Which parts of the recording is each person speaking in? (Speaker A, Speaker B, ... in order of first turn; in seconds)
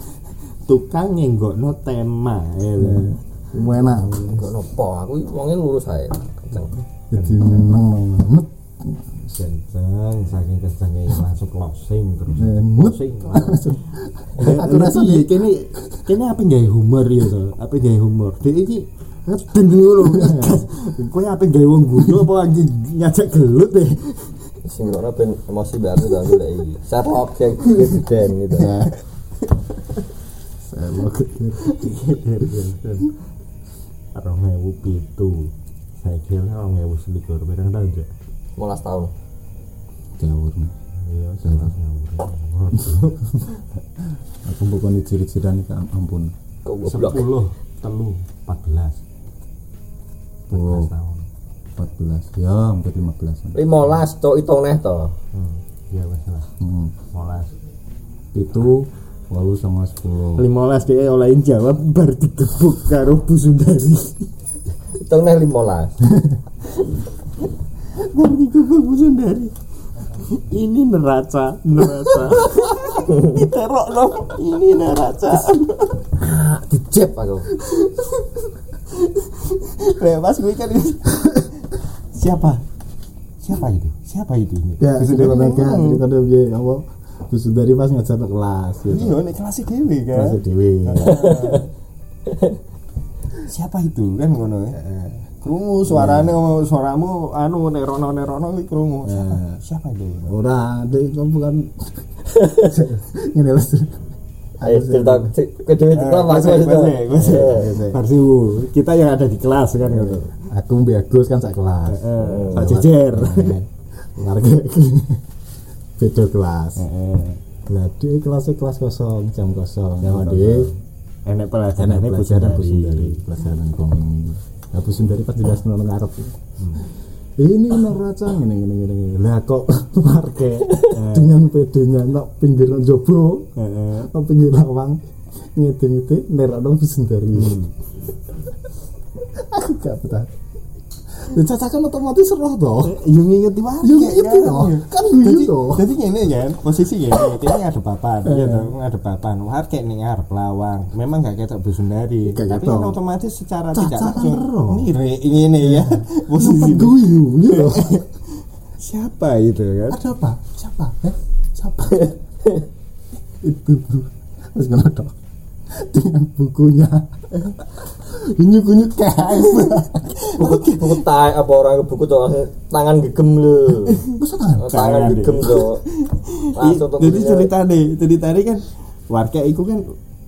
Speaker A: 0.7-3.2, 3.8-4.5, 7.1-7.7, 9.3-13.7, 14.4-24.4, 28.6-28.9, 31.6-33.2, 34.1-38.1, 41.0-43.6, 46.9-49.0, 50.5-51.3, 55.3-56.5, 57.1-57.5, 60.4-64.3, 68.0-69.5, 70.1-76.0, 77.5-81.5, 82.1-82.6, 83.4-86.0, 88.9-91.7, 93.4-100.4, 105.9-110.3, 111.9-113.6, 116.8-117.4, 120.0-120.7, 121.3-123.2, 126.6-126.8, 130.9-131.3, 133.6-134.1, 137.3-137.7, 142.8-160.0, 169.5-169.8, 170.3-170.9, 174.7-179.8
Speaker B: 2.8-4.2, 7.1-9.3, 12.3-16.1, 20.0-20.7, 22.0-22.3, 28.6-28.9, 30.6-31.9, 40.2-40.7, 41.4-41.8, 42.8-43.4, 44.5-46.3, 50.5-50.9, 51.8-53.6, 56.6-57.0, 58.3-60.5, 84.8-89.2, 90.1-91.4, 95.9-96.4, 99.0-99.6, 100.3-104.0, 104.6-105.3, 107.2-108.0, 110.4-115.2, 116.0-116.9, 117.7-120.7, 121.8-126.4, 127.4-133.5, 134.1-135.0, 135.6-137.6, 139.3-140.3, 141.2-143.0, 143.8-145.9, 148.2-148.7, 152.3-153.0, 153.7-154.9, 155.6-158.0, 159.9-162.1, 163.4-165.1, 165.7-170.4, 174.0-175.0
Speaker C: 4.2-6.8, 24.6-28.9, 38.6-39.1, 46.6-47.3, 53.5-55.1, 65.0-66.0, 72.9-73.5, 76.2-77.5, 91.0-91.7, 92.3-92.6, 102.3-102.8, 104.6-107.8, 109.9-110.3, 112.2-112.7, 170.3-174.1, 174.6-175.8, 176.6-177.5